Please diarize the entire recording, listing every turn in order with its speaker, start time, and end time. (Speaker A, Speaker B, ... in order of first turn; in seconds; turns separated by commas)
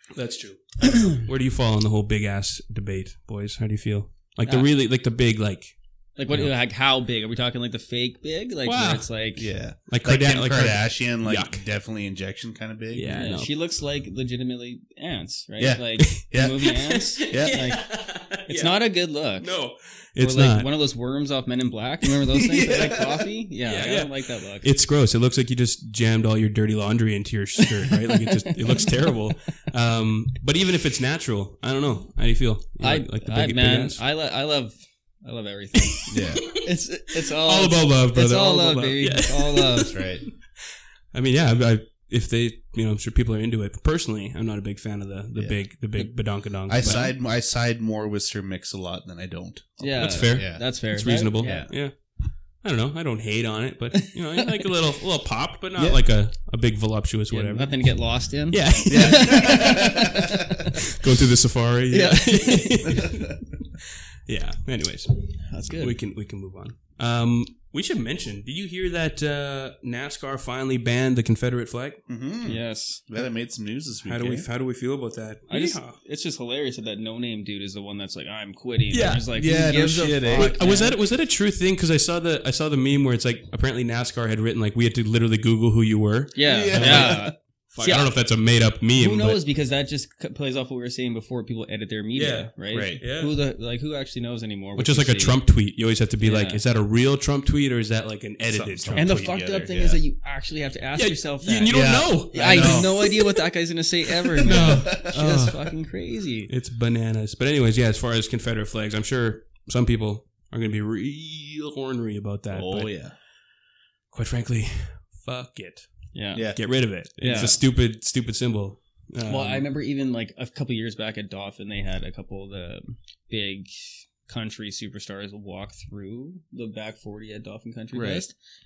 Speaker A: 0.1-6.5, Speaker B: 4.4-4.7, Speaker B: 6.1-9.5, Speaker A: 8.6-9.3, Speaker C: 9.3-13.3, Speaker A: 9.9-11.7, Speaker A: 12.9-13.5, Speaker B: 13.1-24.7, Speaker C: 15.6-17.6, Speaker A: 16.1-20.7, Speaker C: 22.5-23.1, Speaker A: 23.6-34.0, Speaker B: 32.8-40.0, Speaker A: 36.1-36.6, Speaker C: 36.1-36.5, Speaker A: 37.3-47.1, Speaker C: 39.8-40.2, Speaker C: 45.4-51.8, Speaker B: 46.8-47.1, Speaker B: 49.8-51.8, Speaker A: 50.0-59.7, Speaker B: 54.0-54.5, Speaker B: 57.3-60.2, Speaker C: 58.9-60.1, Speaker A: 61.0-63.4, Speaker B: 61.9-62.9, Speaker A: 64.2-72.0, Speaker B: 65.5-66.0, Speaker C: 72.1-74.5, Speaker B: 72.4-73.0, Speaker A: 74.0-76.0, Speaker B: 75.5-81.0, Speaker A: 78.9-79.3, Speaker C: 79.3-80.6, Speaker A: 79.9-89.4, Speaker B: 86.3-88.3, Speaker C: 86.5-87.3, Speaker B: 89.0-95.6, Speaker A: 92.1-93.4, Speaker C: 92.7-93.0, Speaker A: 94.8-99.3, Speaker B: 96.2-96.6, Speaker C: 98.4-100.0, Speaker B: 98.9-106.5, Speaker A: 100.9-103.2, Speaker C: 101.7-103.0, Speaker C: 104.4-105.4, Speaker A: 104.4-105.8, Speaker A: 106.5-119.7, Speaker C: 112.5-113.2, Speaker B: 116.1-117.5, Speaker C: 116.3-117.6, Speaker B: 119.2-128.3, Speaker C: 127.9-128.2